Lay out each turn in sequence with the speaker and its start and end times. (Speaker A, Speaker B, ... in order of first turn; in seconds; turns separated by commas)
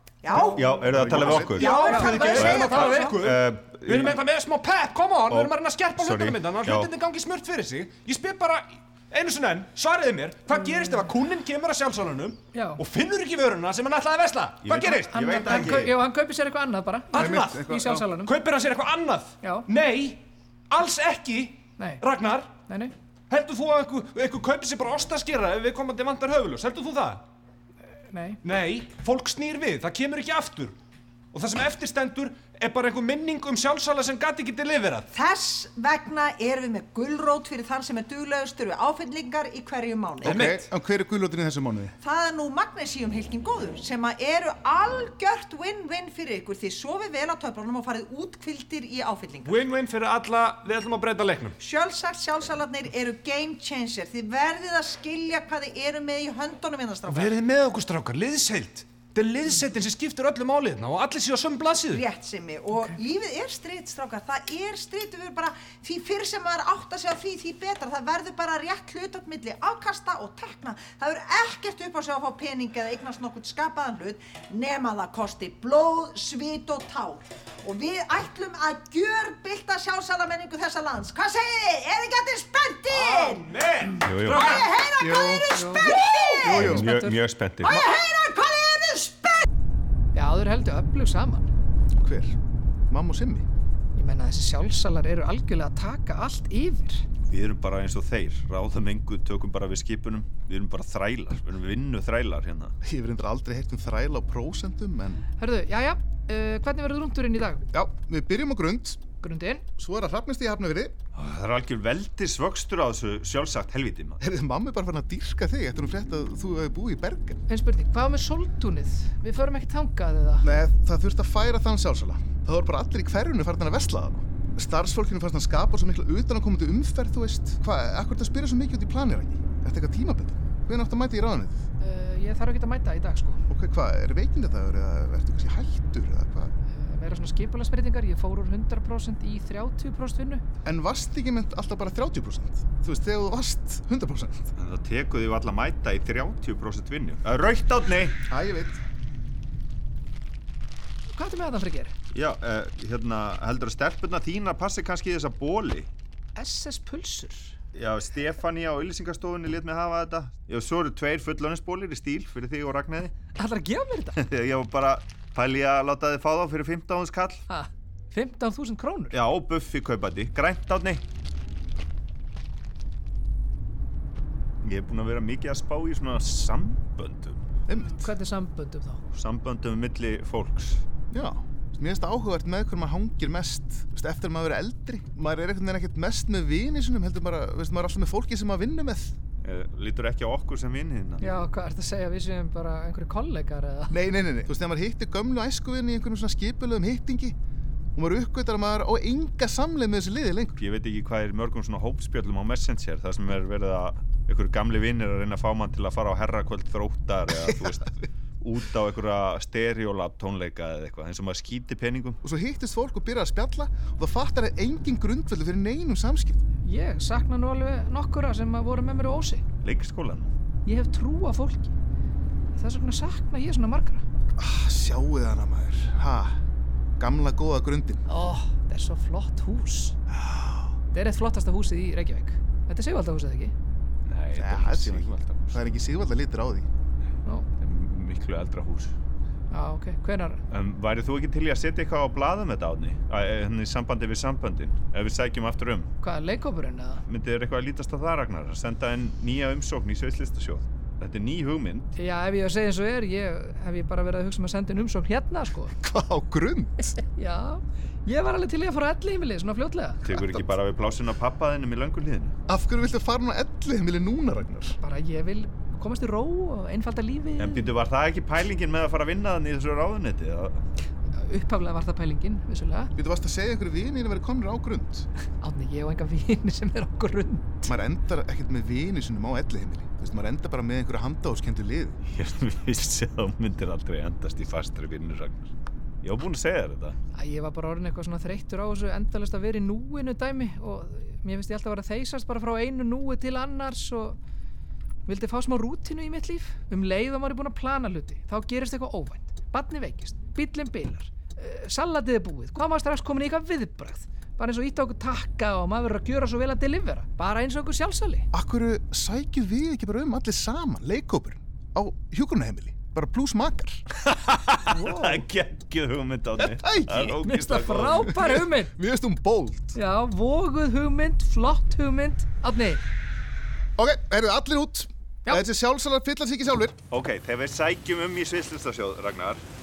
Speaker A: 0.2-0.6, Speaker B: 0.3-0.6, Speaker C: 0.3-1.6, Speaker D: 0.5-1.7, Speaker E: 1.1-15.2, Speaker A: 1.5-3.2, Speaker B: 1.7-3.1, Speaker D: 2.3-4.2, Speaker D: 5.3-6.9, Speaker B: 10.5-11.0, Speaker B: 12.5-12.8, Speaker D: 14.6-15.9, Speaker B: 15.1-18.3, Speaker E: 17.1-22.5, Speaker C: 17.1-18.1, Speaker B: 19.4-19.7, Speaker B: 22.7-22.9, Speaker E: 23.3-27.2, Speaker B: 28.1-28.4, Speaker E: 28.4-30.8, Speaker E: 31.3-35.1, Speaker A: 35.1-40.5, Speaker E: 40.2-40.7, Speaker C: 40.2-41.9, Speaker A: 42.0-49.6, Speaker E: 49.5-51.6, Speaker A: 51.6-57.3, Speaker E: 57.1-62.0, Speaker A: 61.9-83.5, Speaker E: 82.9-84.7, Speaker D: 84.0-84.6, Speaker A: 84.3-86.5, Speaker C: 85.0-86.9, Speaker B: 85.5-87.2, Speaker D: 86.4-87.8, Speaker A: 87.6-89.4, Speaker B: 90.1-91.5, Speaker C: 92.0-92.4, Speaker C: 92.9-93.5, Speaker B: 93.9-97.0, Speaker D: 97.3-102.7, Speaker C: 102.8-105.2, Speaker B: 105.4-107.6, Speaker C: 107.7-109.0, Speaker B: 109.2-109.6, Speaker C: 109.8-111.0, Speaker D: 111.1-114.2, Speaker C: 114.2-117.4, Speaker B: 117.5-120.5, Speaker C: 120.4-131.7, Speaker B: 131.8-133.4, Speaker C: 133.5-136.5, Speaker B: 136.7-140.4, Speaker C: 140.6-144.5, Speaker D: 144.6-148.2, Speaker C: 148.3-148.8, Speaker B: 151.1-151.9, Speaker D: 152.1-155.9, Speaker B: 156.4-157.6, Speaker D: 157.7-163.1, Speaker B: 163.4-164.2, Speaker D: 164.2-167.4, Speaker B: 167.5-169.2, Speaker D: 169.1-171.0, Speaker D: 174.6-177.4, Speaker C: 177.7-178.1, Speaker B: 177.8-179.0, Speaker D: 179.1-180.8, Speaker C: 181.1-189.1, Speaker D: 189.4-191.2, Speaker B: 191.2-193.9, Speaker C: 193.9-197.3, Speaker C: 197.9-200.6, Speaker D: 200.6-212.2, Speaker C: 207.3-207.8, Speaker C: 212.2-216.4, Speaker B: 216.6-219.4, Speaker D: 219.6-220.3, Speaker B: 220.7-221.7, Speaker B: 222.5-224.0, Speaker C: 224.4-226.4, Speaker C: 227.0-228.0, Speaker B: 228.1-230.0, Speaker C: 230.1-230.7, Speaker B: 230.9-233.5, Speaker D: 234.1-235.6, Speaker C: 234.3-236.7, Speaker D: 237.6-238.9, Speaker B: 239.5-240.4, Speaker D: 240.5-245.9, Speaker B: 246.0-247.0, Speaker D: 247.1-251.9, Speaker B: 251.9-255.8, Speaker C: 255.8-256.9, Speaker B: 257.1-260.1, Speaker D: 260.0-262.4, Speaker C: 260.1-260.4, Speaker C: 262.5-264.8, Speaker B: 264.8-267.7, Speaker D: 267.4-270.6, Speaker B: 271.2-272.9, Speaker C: 273.0-275.1, Speaker B: 275.4-277.7, Speaker C: 277.6-282.0, Speaker D: 282.1-286.9, Speaker B: 287.1-294.2, Speaker B: 295.1-308.3, Speaker C: 308.3-313.8, Speaker D: 314.0-318.1, Speaker B: 314.7-315.2, Speaker C: 316.4-319.8, Speaker B: 317.2-318.7, Speaker B: 319.7-322.8, Speaker C: 323.8-326.8, Speaker D: 326.9-329.4